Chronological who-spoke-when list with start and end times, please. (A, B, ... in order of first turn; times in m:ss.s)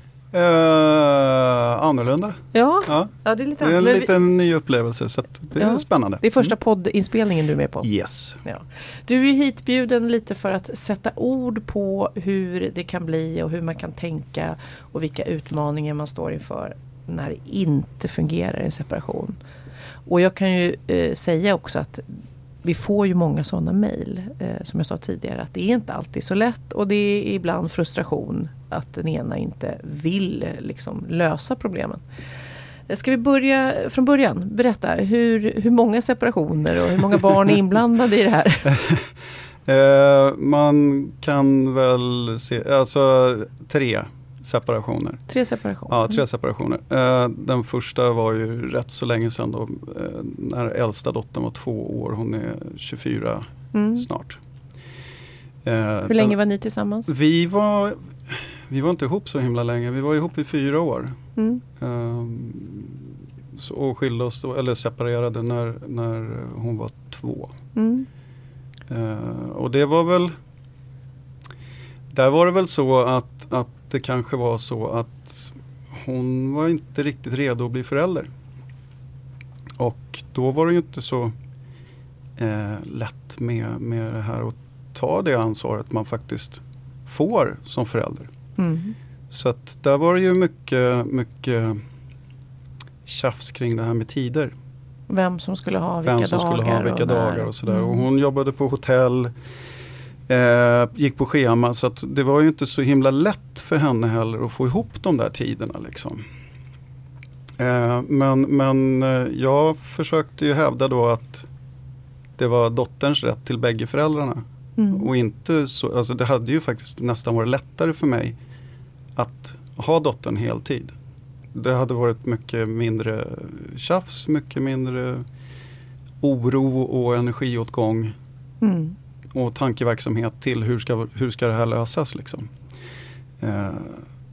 0:00.3-0:06.5 A
0:02.5-0:04.1 B
0:05.6-0:07.9 B
0:07.8-0:08.4 A
0:08.4-0:19.4 B
0:20.1-0:22.1 B
0:22.6-0:32.0 B
0:32.9-0:38.7 B
0:38.7-0:39.1 A
0:39.7-0:45.2 A
0:45.3-0:46.2 B
0:45.9-0:54.4 A
0:53.7-0:54.0 B
0:55.6-0:56.4 A
0:56.1-0:57.1 B
0:57.1-1:01.2 A
1:01.4-1:01.6 B
1:01.8-1:03.0 A
1:03.5-1:07.5 A
1:07.8-1:08.1 B
1:08.9-1:10.3 A
1:12.1-1:18.3 A
1:19.8-1:21.3 A
1:22.4-1:28.3 A
1:28.6-1:29.0 B
1:29.3-1:31.8 A
1:33.1-1:34.5 A
1:35.1-1:38.0 B
1:36.0-1:39.3 A
1:40.3-1:46.2 A
1:47.6-1:51.5 A
1:52.4-1:58.4 A
1:54.8-1:55.1 B
1:59.2-2:00.9 A
2:01.5-2:05.2 A
2:06.2-2:08.1 A
2:08.6-2:09.0 B
2:09.3-2:12.5 A
2:13.4-2:14.0 A